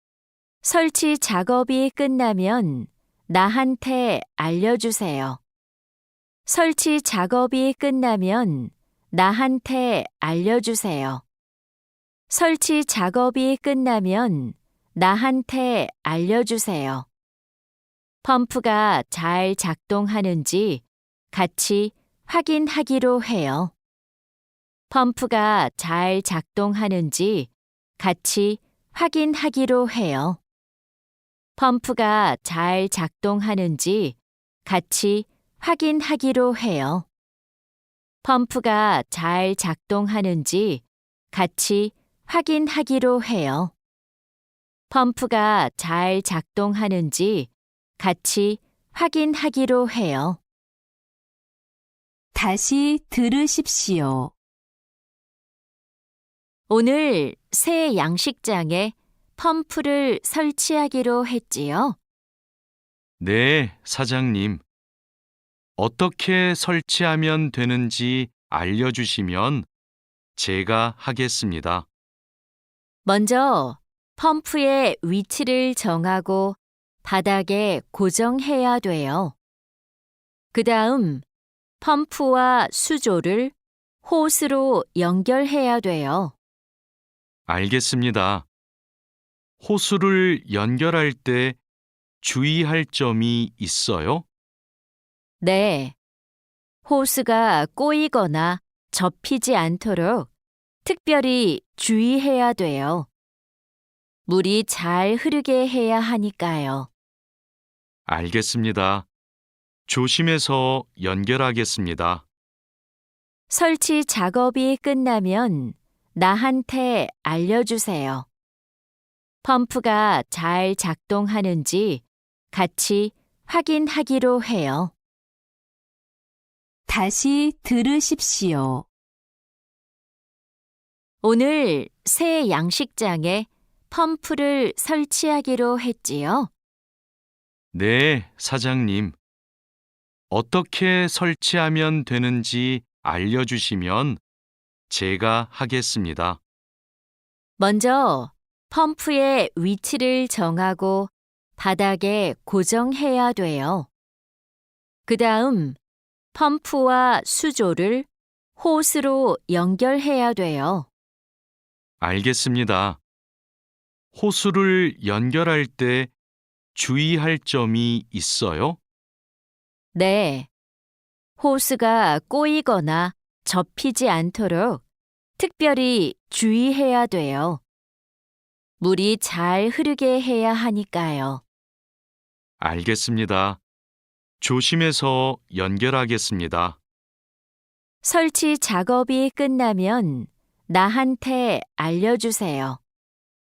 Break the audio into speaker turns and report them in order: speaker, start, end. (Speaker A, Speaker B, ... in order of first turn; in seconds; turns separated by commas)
Speaker A: 0.6-5.4, Speaker A: 6.5-11.2, Speaker A: 12.3-17.1, Speaker A: 18.2-23.7, Speaker A: 24.9-30.4, Speaker A: 31.6-37.1, Speaker A: 38.2-43.7, Speaker A: 44.9-50.4, Speaker B: 52.3-54.3, Speaker A: 56.7-62.0, Speaker C: 63.2-64.6, Speaker C: 65.8-69.7, Speaker C: 70.3-71.9, Speaker A: 73.0-79.3, Speaker A: 80.5-81.2, Speaker A: 81.8-86.3, Speaker C: 87.5-88.5, Speaker C: 89.6-91.6, Speaker C: 92.2-94.2, Speaker A: 95.4-96.0, Speaker A: 96.8-100.3, Speaker A: 100.8-103.1, Speaker A: 104.2-106.9, Speaker C: 108.1-109.1, Speaker C: 109.9-112.2, Speaker A: 113.5-118.3, Speaker A: 119.4-124.9, Speaker B: 126.9-128.8, Speaker A: 131.2-136.5, Speaker C: 137.7-139.2, Speaker C: 140.3-144.2, Speaker C: 144.9-146.4, Speaker A: 147.6-153.9, Speaker A: 155.1-155.8, Speaker A: 156.3-160.9, Speaker C: 162.0-163.0, Speaker C: 164.1-166.1, Speaker C: 166.7-168.8, Speaker A: 169.9-170.5, Speaker A: 171.4-174.8, Speaker A: 175.4-177.6, Speaker A: 178.8-181.4, Speaker C: 182.6-183.6, Speaker C: 184.4-186.8, Speaker A: 188.0-192.8